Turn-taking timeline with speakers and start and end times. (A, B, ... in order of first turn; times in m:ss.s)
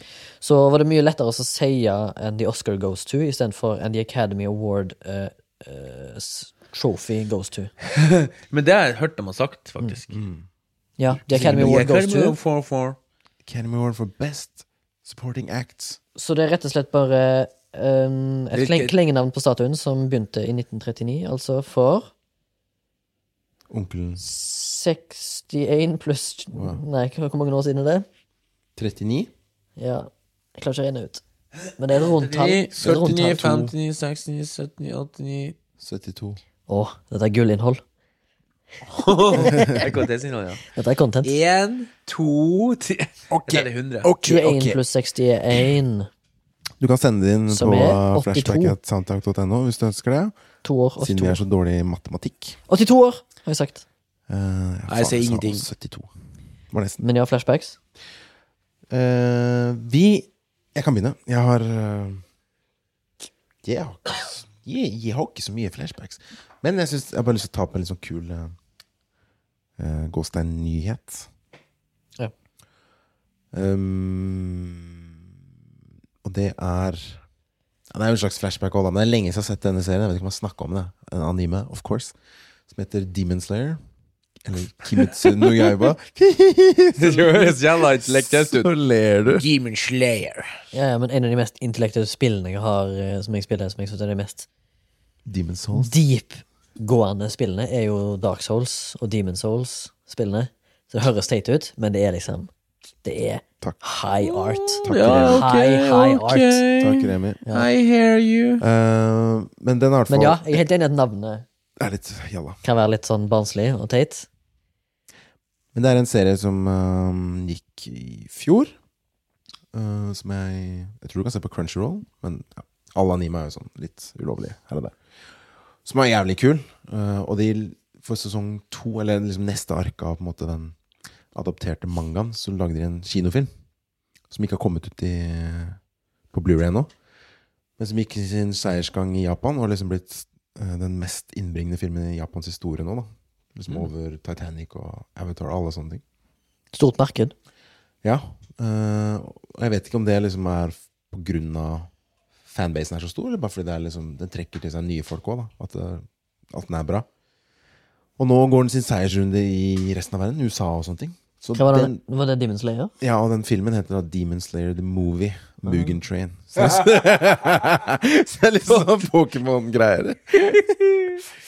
0:00.4-0:07.7 A
0:07.8-0:10.2 B
0:10.1-0:10.4 C
0:11.0-0:12.4 A
0:11.3-0:13.0 B
0:11.3-0:11.8 C
0:13.4-0:16.0 C
0:16.2-0:22.1 A
0:18.5-0:18.9 B
0:23.7-0:24.2 C
0:24.2-0:28.1 A
0:26.5-0:26.8 C
0:28.8-0:29.3 C
0:29.8-0:31.2 A
0:31.7-0:33.7 A
0:32.0-0:35.5 B
0:32.8-0:33.7 C
0:35.8-0:36.4 C
0:36.7-0:37.8 A
0:38.9-0:40.6 B
0:39.3-0:39.9 A
0:39.5-0:39.8 C
0:40.7-0:41.3 A
0:41.2-0:44.1 B
0:43.3-0:44.8 C
0:44.2-0:46.1 A
0:46.8-0:50.3 C
0:47.5-0:48.8 A
0:50.6-0:51.4 A
0:51.0-0:52.6 C
0:52.7-0:53.8 A
0:54.3-0:56.1 C
0:54.9-0:55.6 B
0:56.7-0:57.0 C
0:57.0-0:57.8 A
0:58.9-1:02.2 C
1:03.6-1:08.5 C
1:09.8-1:11.3 C
1:13.5-1:15.2 C
1:16.2-1:17.2 C
1:17.9-1:22.1 C
1:22.7-1:23.8 C
1:24.4-1:29.4 C
1:27.0-1:28.7 B
1:29.3-1:30.5 B
1:30.7-1:34.5 A
1:35.2-1:35.9 C
1:35.7-1:42.5 A
1:43.0-1:46.6 A
1:44.8-1:48.6 B
1:44.8-1:45.5 C
1:46.8-1:47.4 C
1:48.6-1:50.6 C
1:50.1-1:51.4 A
1:51.8-1:52.6 C
1:52.6-1:54.3 A
1:55.7-1:58.7 C
1:59.7-2:05.0 C
2:05.8-2:10.8 C
2:11.3-2:13.5 C
2:14.3-2:15.8 C
2:16.3-2:16.9 C
2:17.8-2:26.0 C
2:26.7-2:27.3 A
2:28.0-2:31.9 C
2:32.5-2:37.0 C
2:38.2-2:42.0 C
2:41.6-2:42.9 A
2:43.0-2:51.2 C